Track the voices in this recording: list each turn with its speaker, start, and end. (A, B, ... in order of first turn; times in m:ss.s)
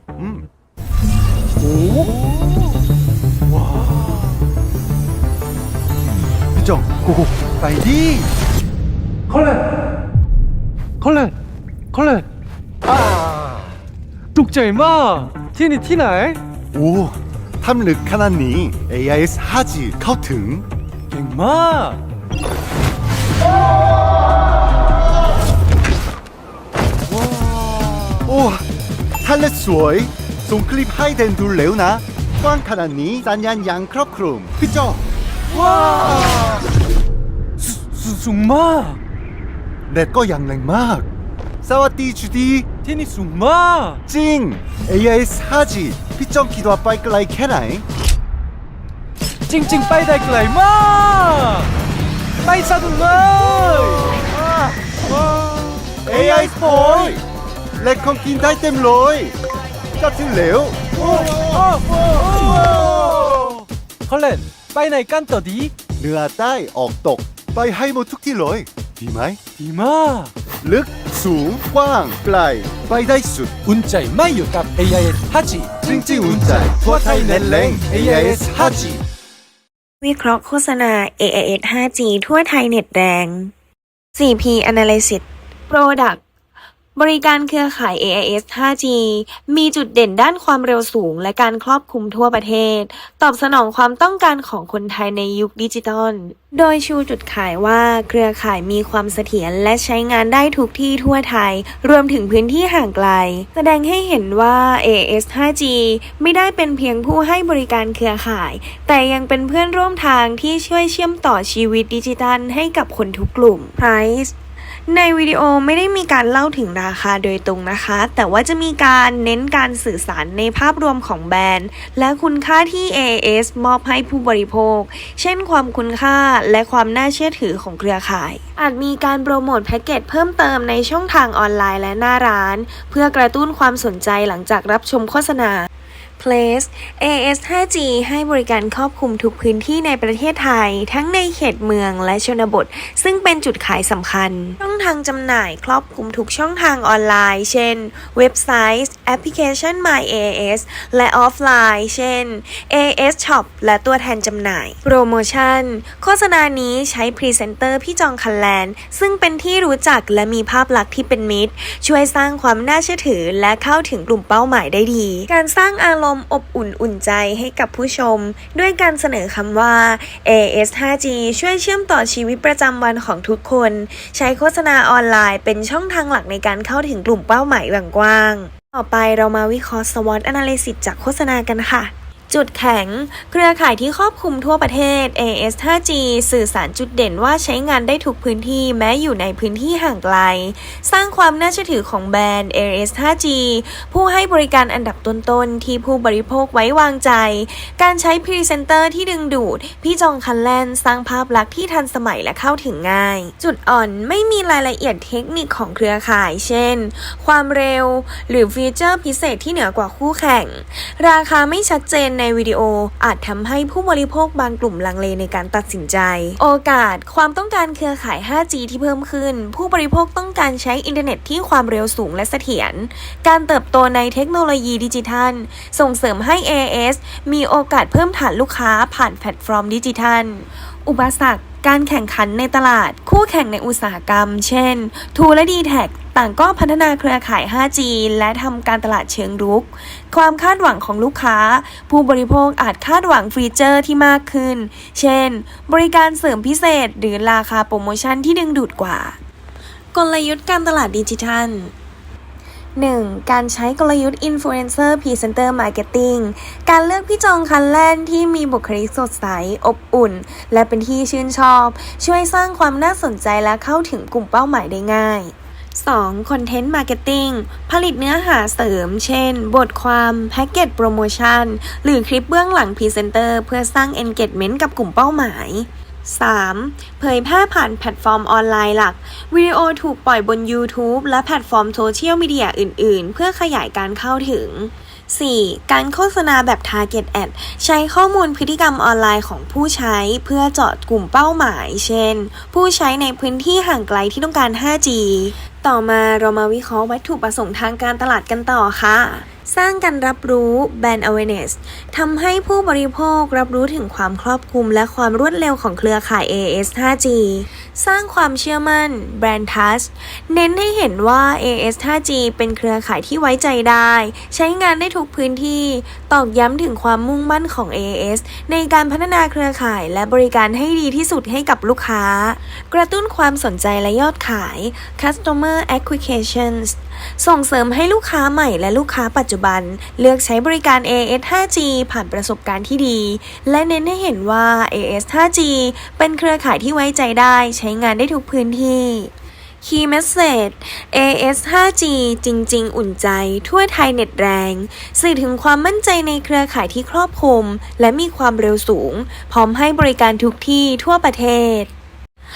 0:00.2-0:00.5 A
0:01.6-0:02.6 B
0:03.5-0:04.2 B
0:06.5-0:08.3 A
0:09.3-0:09.6 B
0:11.0-0:11.3 B
0:11.9-0:12.2 B
0:14.3-0:16.4 B
0:16.7-0:20.7 A
0:21.1-0:22.0 B
0:28.2-0:28.7 A
0:29.2-0:35.0 A
0:35.5-0:36.6 B
0:37.6-0:39.0 B
0:39.9-0:41.1 A
0:41.6-0:42.7 A
0:42.8-0:44.0 B
0:44.1-0:47.9 A
0:49.5-0:51.7 B
0:52.4-0:54.3 B
0:56.1-0:57.2 B
0:56.1-0:57.2 A
0:57.8-0:59.4 A
1:00.0-1:01.4 A
1:01.0-1:05.7 B
1:02.5-1:02.8 A
1:06.0-1:09.4 A
1:09.6-1:10.3 B
1:10.6-1:13.5 A
1:13.6-1:19.0 B
1:15.8-1:19.0 A
1:20.0-1:23.5 C
1:24.2-1:26.2 C
1:27.0-1:54.4 C
1:54.9-4:09.2 C
4:09.9-4:11.7 C
4:12.8-5:51.7 C